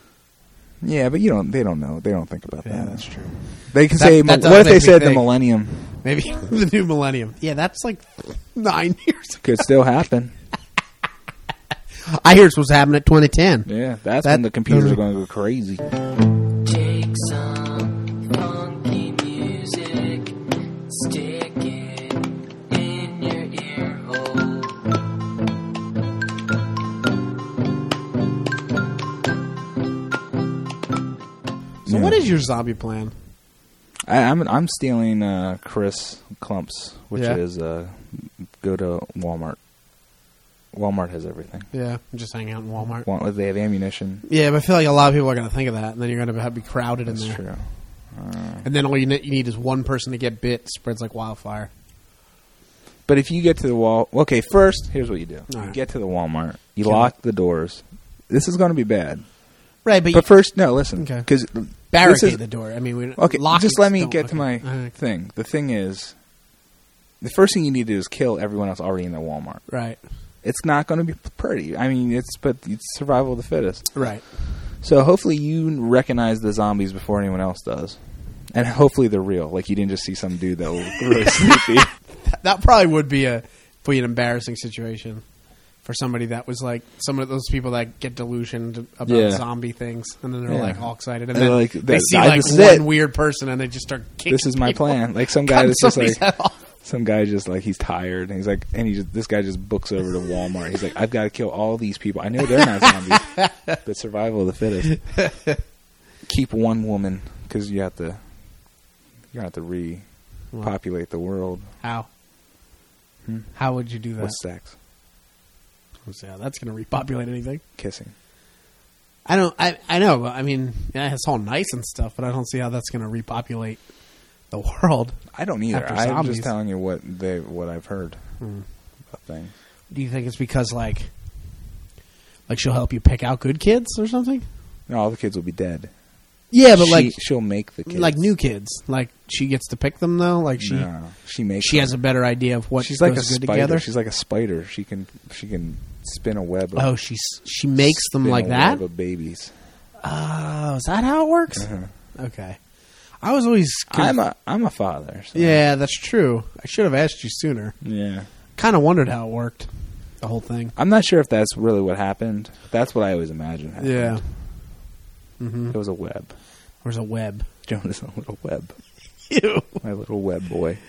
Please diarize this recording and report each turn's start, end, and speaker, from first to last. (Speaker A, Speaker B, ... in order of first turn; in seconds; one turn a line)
Speaker A: 0.8-6.0
Speaker B: 2.6-3.4
Speaker B: 3.9-5.2
Speaker B: 6.0-9.7
Speaker A: 9.4-10.3
Speaker B: 12.1-13.7
Speaker A: 13.7-15.8
Speaker B: 14.2-15.0
Speaker C: 16.6-24.8
Speaker A: 31.9-32.2
Speaker B: 31.9-33.1
Speaker A: 34.0-39.6
Speaker A: 40.7-41.7
Speaker B: 41.7-43.1
Speaker A: 43.0-44.2
Speaker B: 44.2-47.4
Speaker A: 47.0-48.6
Speaker B: 48.6-51.7
Speaker A: 53.0-59.2
Speaker B: 55.5-55.7
Speaker B: 56.8-57.1
Speaker B: 59.8-60.3
Speaker A: 60.1-62.4
Speaker B: 61.0-61.3
Speaker B: 61.9-64.9
Speaker A: 63.2-66.1
Speaker A: 67.2-69.6
Speaker B: 69.7-70.0
Speaker A: 70.4-81.9
Speaker B: 73.9-74.2
Speaker B: 82.2-85.2
Speaker B: 85.8-96.6
Speaker A: 89.0-89.4
Speaker A: 90.5-92.8
Speaker A: 94.3-96.2
Speaker A: 96.8-105.1
Speaker B: 102.8-103.7
Speaker B: 105.0-105.6
Speaker A: 106.2-108.2
Speaker A: 109.3-110.0
Speaker A: 110.6-111.7
Speaker B: 111.8-112.1
Speaker A: 113.2-113.5
Speaker B: 113.5-114.4
Speaker A: 114.2-114.7
Speaker B: 116.0-117.6
Speaker A: 117.8-118.1
Speaker B: 119.2-123.8
Speaker B: 124.5-125.2
Speaker A: 125.3-128.2
Speaker B: 125.7-126.5
Speaker B: 128.4-128.6
Speaker A: 129.1-129.5
Speaker B: 129.9-131.1
Speaker B: 132.5-134.4
Speaker A: 134.9-135.9
Speaker B: 136.5-137.2
Speaker A: 136.7-138.2
Speaker B: 137.9-140.9
Speaker A: 140.6-141.9
Speaker B: 141.6-143.8
Speaker A: 142.8-146.9
Speaker B: 146.8-148.8
Speaker A: 147.8-149.5
Speaker B: 150.0-152.6
Speaker A: 151.6-151.9
Speaker B: 153.2-154.2
Speaker A: 153.9-155.6
Speaker B: 155.3-157.7
Speaker A: 157.8-158.3
Speaker B: 158.6-159.7
Speaker B: 160.2-160.7
Speaker A: 160.8-164.2
Speaker B: 163.8-164.2
Speaker B: 165.4-165.8
Speaker A: 165.7-166.3
Speaker B: 166.8-167.4
Speaker A: 167.7-168.8
Speaker B: 169.3-169.8
Speaker A: 169.8-170.8